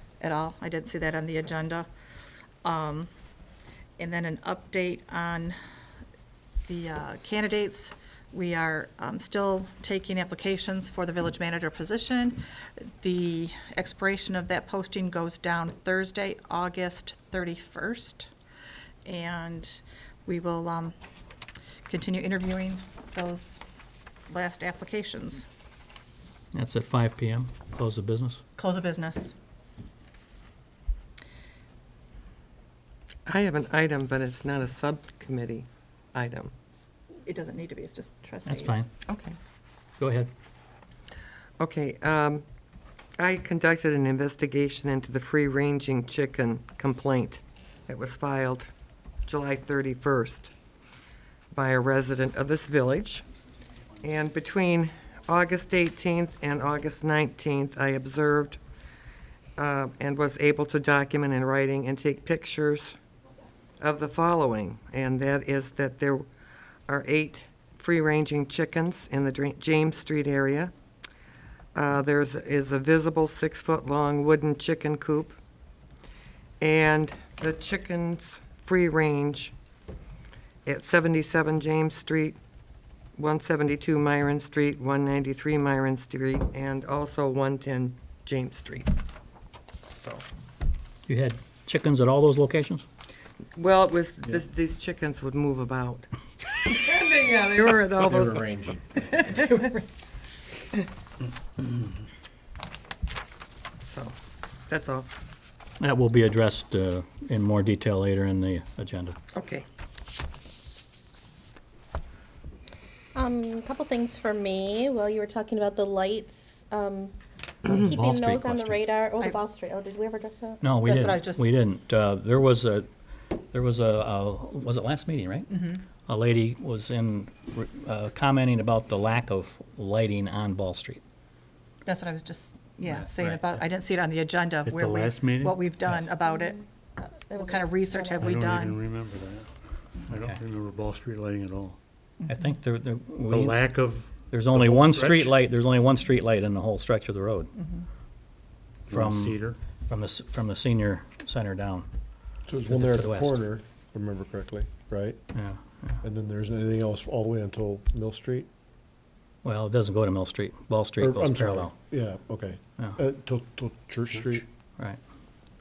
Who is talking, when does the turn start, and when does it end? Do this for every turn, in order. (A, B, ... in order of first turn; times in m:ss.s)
0:00.2-0:01.9 A
0:02.6-0:03.1 A
0:04.0-0:05.6 A
0:06.7-0:18.3 A
0:19.0-0:21.0 A
0:21.9-0:23.6 A
0:24.3-0:25.5 A
0:26.5-0:28.4 B
0:28.6-0:29.4 A
0:33.2-0:36.5 C
0:37.2-0:38.8 A
0:38.5-0:38.9 B
0:39.1-0:39.4 C
0:40.0-0:40.3 B
0:41.6-0:42.4 C
0:43.2-0:48.7 C
0:49.2-0:50.5 C
0:51.5-0:53.2 C
0:54.0-0:58.6 C
0:59.6-1:03.0 C
1:03.8-1:06.2 C
1:06.9-1:10.7 C
1:11.7-1:15.4 C
1:16.6-1:19.5 C
1:20.6-1:22.4 C
1:23.2-1:28.9 C
1:29.9-1:30.2 C
1:31.1-1:32.8 B
1:33.6-1:36.1 C
1:36.6-1:39.8 C
1:43.8-1:44.1 C
1:44.7-1:45.1 C
1:45.8-1:49.2 B
1:49.3-1:49.6 C
1:53.1-1:57.1 D
1:57.7-2:00.6 D
1:57.7-1:58.9 B
2:00.6-2:02.9 B
2:00.8-2:01.5 A
2:03.5-2:05.5 B
2:05.5-2:05.8 A
2:06.1-2:11.0 B
2:11.8-2:16.6 A
2:12.9-2:13.4 B
2:14.6-2:15.7 E
2:17.1-2:18.8 A
2:17.3-2:18.3 D
2:18.2-2:21.8 E
2:20.1-2:20.4 B
2:22.2-2:22.5 A
2:22.3-2:23.6 B
2:23.3-2:25.4 E
2:24.2-2:27.5 B
2:27.6-2:27.9 A
2:28.9-2:29.6 E
2:28.9-2:31.9 B
2:32.5-2:35.2 F
2:32.7-2:33.4 B
2:35.3-2:36.0 B
2:36.0-2:38.5 F
2:39.4-2:41.8 B
2:41.0-2:44.4 F